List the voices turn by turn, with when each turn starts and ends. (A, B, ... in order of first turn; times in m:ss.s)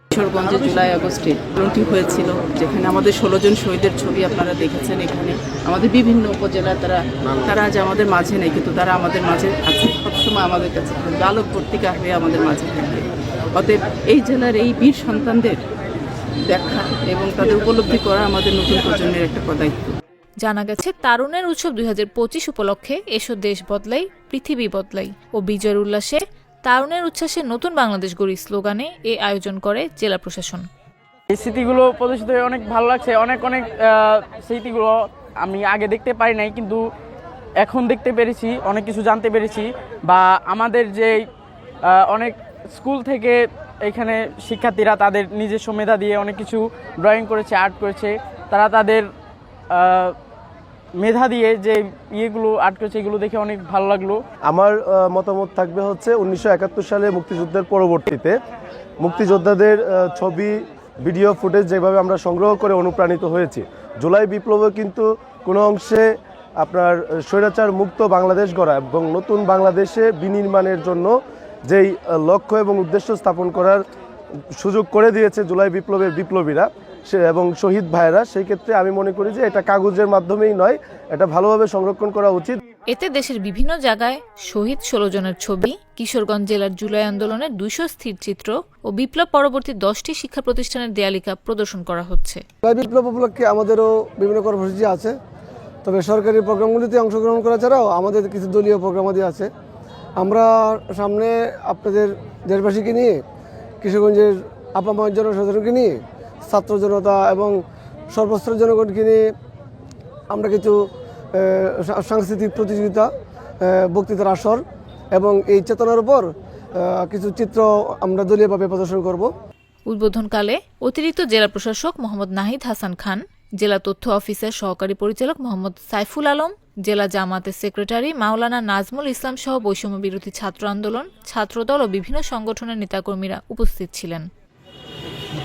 0:00.1-0:15.7 A
0:16.4-0:20.0 A
0:20.4-0:30.7 B
0:31.3-0:36.8 C
0:37.6-0:41.2 C
0:41.9-0:49.1 C
0:49.7-0:50.2 C
0:51.0-0:54.2 C
0:54.5-0:58.3 D
0:59.0-1:06.1 D
1:06.6-1:11.1 D
1:11.7-1:13.8 D
1:14.6-1:22.6 D
1:22.9-1:32.4 B
1:32.6-1:35.1 E
1:35.8-1:39.5 E
1:40.2-1:43.2 E
1:43.8-1:45.9 E
1:46.5-1:47.6 E
1:48.1-1:49.2 E
1:50.3-1:50.8 E
1:51.4-1:53.1 E
1:53.7-1:54.6 E
1:55.2-1:56.3 E
1:56.8-1:59.3 E
1:59.9-2:14.3 B